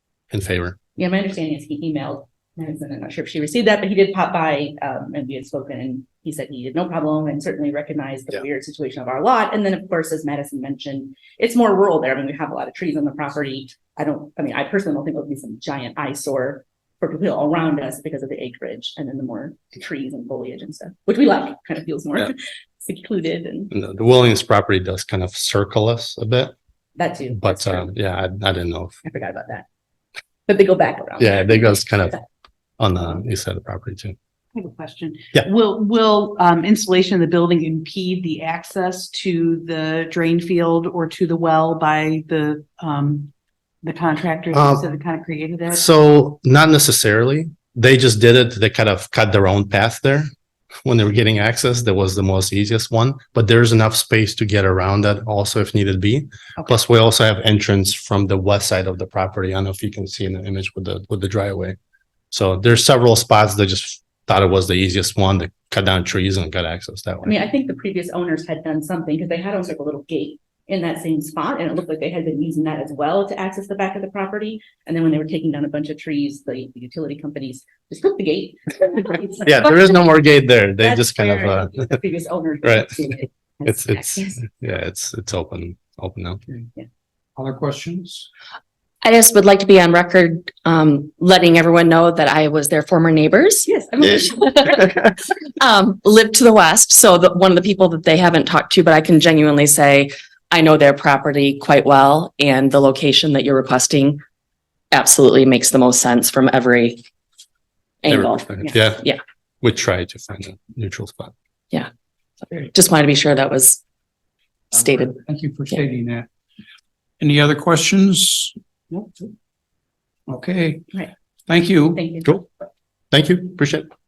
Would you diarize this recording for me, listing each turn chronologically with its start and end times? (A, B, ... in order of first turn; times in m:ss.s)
0:00.3-0:00.8 A
0:01.0-0:23.7 B
0:23.7-0:26.5 A
0:27.0-0:27.9 B
0:27.3-0:29.0 A
0:29.0-0:29.7 B
0:30.5-0:32.2 B
0:31.2-0:32.2 A
0:32.8-0:34.2 A
0:34.6-0:43.3 C
0:43.8-0:45.8 C
0:44.5-0:44.8 A
0:45.7-0:50.3 A
0:50.8-1:01.8 A
1:02.3-1:07.4 A
1:07.2-1:20.0 B
1:19.4-1:22.0 A
1:20.8-1:24.4 B
1:22.6-1:23.1 A
1:23.6-1:26.4 A
1:27.4-1:28.3 D
1:29.0-1:44.2 E
1:33.7-1:35.0 B
1:44.9-1:47.0 E
1:48.0-1:49.2 E
1:48.1-1:49.0 A
1:49.6-1:51.3 A
1:52.4-1:53.8 E
1:54.7-1:55.1 E
1:55.1-1:56.3 D
1:57.2-1:59.1 D
2:00.3-2:00.9 D
2:01.5-2:02.0 D
2:02.0-2:02.3 B
2:03.1-2:03.9 A